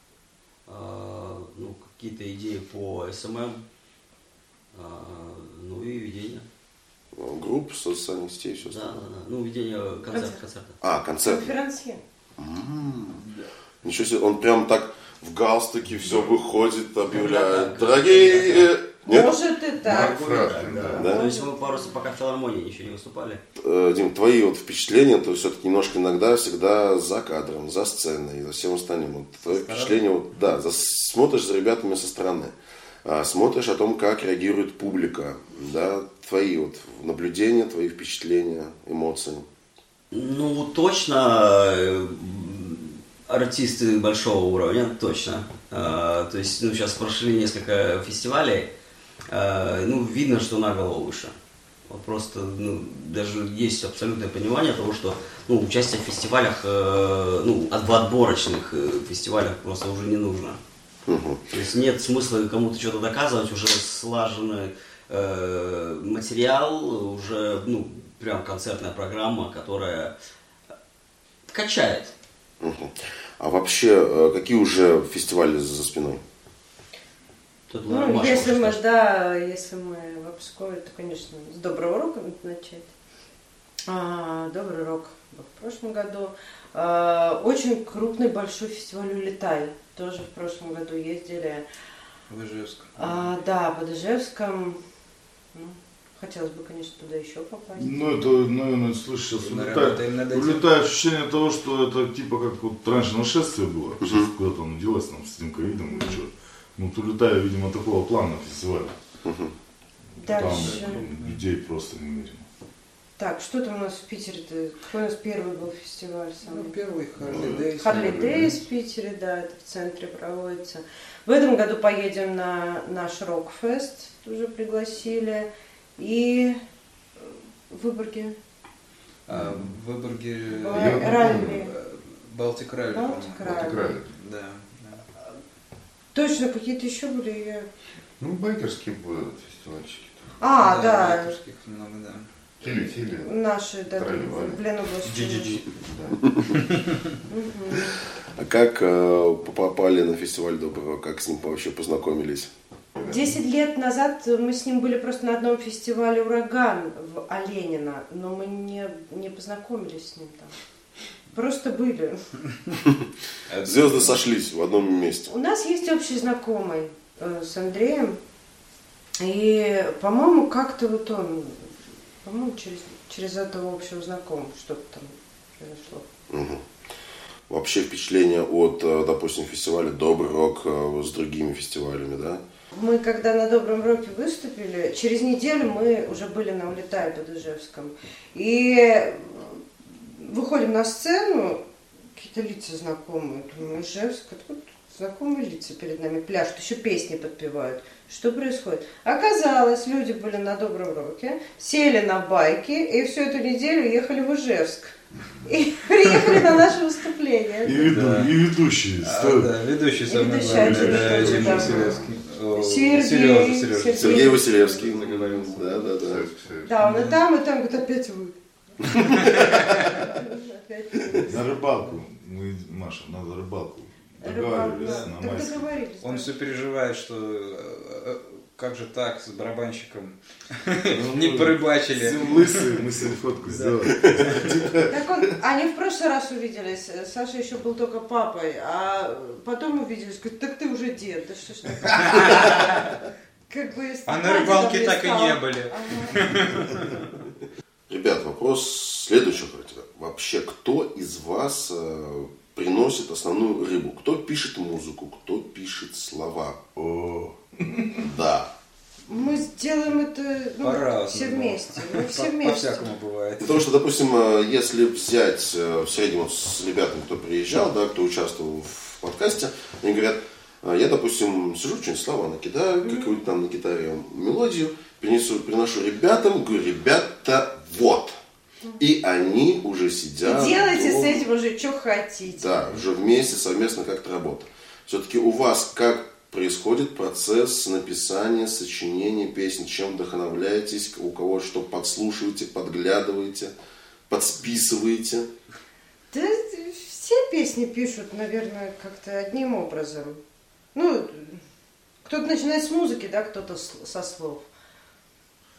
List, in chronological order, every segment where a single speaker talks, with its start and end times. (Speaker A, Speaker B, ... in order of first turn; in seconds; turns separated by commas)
Speaker A: 0.7-3.6, Speaker A: 4.7-6.5, Speaker B: 7.1-8.8, Speaker A: 8.7-10.8, Speaker C: 10.1-10.4, Speaker B: 10.8-11.5, Speaker C: 11.2-12.0, Speaker B: 12.4-13.3, Speaker B: 13.8-19.4, Speaker A: 17.0-18.8, Speaker C: 19.1-20.3, Speaker D: 19.8-21.1, Speaker E: 19.9-21.1, Speaker A: 20.9-23.4, Speaker B: 21.0-21.2, Speaker C: 21.0-22.1, Speaker B: 23.6-32.5, Speaker B: 33.0-39.5, Speaker A: 40.1-48.7, Speaker A: 49.3-51.4, Speaker A: 51.9-60.6, Speaker B: 61.1-61.4, Speaker A: 61.5-70.2, Speaker A: 71.5-72.1, Speaker B: 72.6-76.2, Speaker A: 77.7-78.8, Speaker C: 77.9-82.9, Speaker C: 83.9-91.7, Speaker F: 92.3-93.2, Speaker C: 93.0-94.8, Speaker C: 95.5-98.0, Speaker E: 97.8-109.0, Speaker F: 99.4-100.7, Speaker B: 104.0-104.3, Speaker C: 105.8-106.2, Speaker B: 109.2-109.5, Speaker F: 110.2-111.4, Speaker C: 110.2-111.1, Speaker E: 110.3-112.5, Speaker C: 113.2-116.8, Speaker F: 116.4-118.5, Speaker D: 117.2-118.5, Speaker C: 117.3-126.6, Speaker C: 127.2-128.4, Speaker F: 129.3-135.0, Speaker D: 129.3-129.7, Speaker C: 130.6-131.7, Speaker D: 130.6-131.7, Speaker C: 132.9-133.9, Speaker D: 133.4-134.1, Speaker C: 136.1-137.7, Speaker D: 138.2-140.4, Speaker C: 140.4-141.4, Speaker F: 140.6-142.3, Speaker D: 142.6-143.3, Speaker C: 142.7-145.6, Speaker D: 143.9-144.6, Speaker F: 145.0-145.7, Speaker D: 145.8-146.2, Speaker B: 146.2-146.6, Speaker F: 146.7-147.0, Speaker C: 147.3-148.0, Speaker B: 148.4-152.5, Speaker D: 152.9-153.4, Speaker C: 153.0-160.5, Speaker C: 161.3-162.2, Speaker F: 163.5-164.2, Speaker B: 163.6-165.3, Speaker C: 165.3-168.2, Speaker C: 169.2-171.7, Speaker C: 172.2-176.1, Speaker B: 176.3-176.6, Speaker B: 177.5-182.4, Speaker C: 182.7-191.6, Speaker C: 192.2-207.8, Speaker D: 205.2-205.4, Speaker E: 207.6-209.5, Speaker F: 207.8-208.4, Speaker F: 209.0-215.8, Speaker C: 210.1-215.6, Speaker E: 210.4-211.4, Speaker D: 210.8-212.1, Speaker B: 214.0-216.3, Speaker D: 216.0-216.8, Speaker C: 216.6-221.7, Speaker F: 216.8-217.2, Speaker B: 218.8-219.2, Speaker F: 219.2-219.8, Speaker E: 221.2-225.7, Speaker C: 224.2-226.3, Speaker F: 224.8-225.1, Speaker F: 226.0-232.8, Speaker E: 230.9-235.1, Speaker F: 233.4-234.5, Speaker C: 234.9-246.3, Speaker F: 242.0-242.7, Speaker F: 244.1-247.1, Speaker B: 247.9-256.6, Speaker E: 256.8-258.1, Speaker B: 258.1-258.5, Speaker C: 259.1-262.9, Speaker F: 260.6-263.7, Speaker B: 263.4-278.2, Speaker C: 272.8-273.1, Speaker B: 278.8-281.3, Speaker C: 280.2-282.8, Speaker B: 282.3-293.5, Speaker B: 294.1-295.3, Speaker C: 296.1-300.2, Speaker C: 300.7-301.4, Speaker C: 302.0-304.4